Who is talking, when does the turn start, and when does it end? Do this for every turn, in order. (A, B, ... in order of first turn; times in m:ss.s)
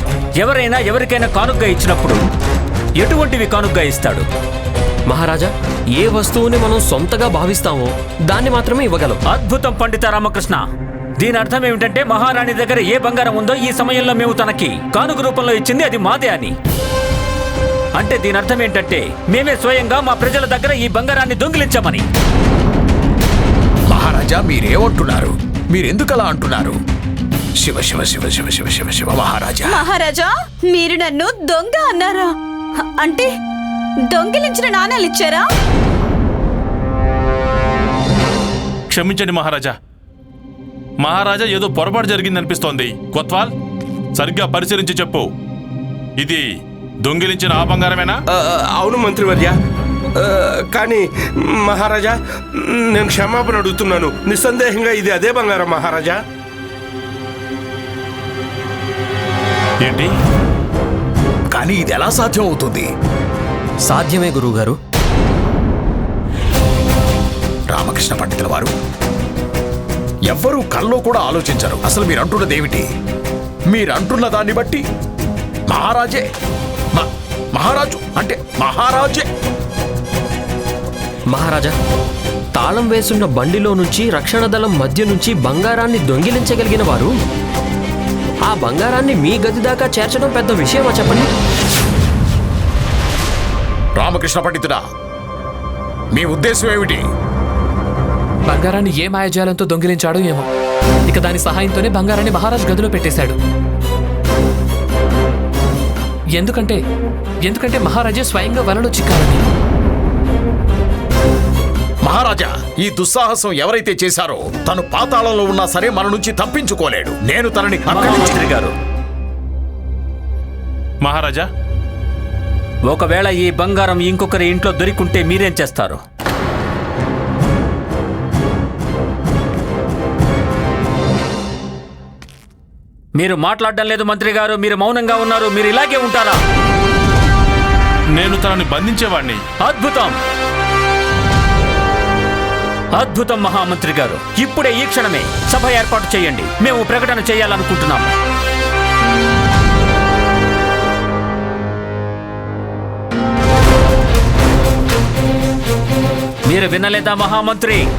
0:00.4-0:02.2 A
0:03.0-0:04.3 A
0:05.1-0:09.2 B
0:09.3-0:10.6 A
0:11.2-0:16.5 A
0:18.0-0:22.0 A
0:23.9-0:26.8 C
0:27.6-0:29.9 C
0:29.7-0:33.3 D
0:34.1-0:35.5 D
0:38.9-0:39.8 E
0:41.0-0:43.5 E
0:44.2-0:45.3 E
0:46.2-0:48.2 E
0:48.3-0:49.5 F
0:50.3-0:51.0 F
0:51.7-0:52.1 F
0:52.8-0:56.2 F
0:59.8-1:00.1 E
1:01.5-1:02.9 C
1:03.8-1:04.8 B
1:07.7-1:08.7 C
1:10.3-1:12.9 C
1:13.7-1:14.8 C
1:15.7-1:16.2 C
1:16.9-1:19.3 C
1:21.3-1:21.8 B
1:22.6-1:27.1 B
1:28.5-1:31.3 B
1:34.0-1:34.8 C
1:36.1-1:37.0 C
1:38.5-1:40.5 G
1:41.1-1:43.4 G
1:46.4-1:46.8 G
1:47.4-1:49.4 G
1:52.0-1:58.4 C
1:57.9-1:58.7 A
2:01.0-2:01.5 E
2:02.9-2:06.0 A
2:13.2-2:16.4 A
2:18.2-2:19.4 E
2:19.6-2:20.2 A
2:22.9-2:28.1 A
2:36.5-2:37.9 A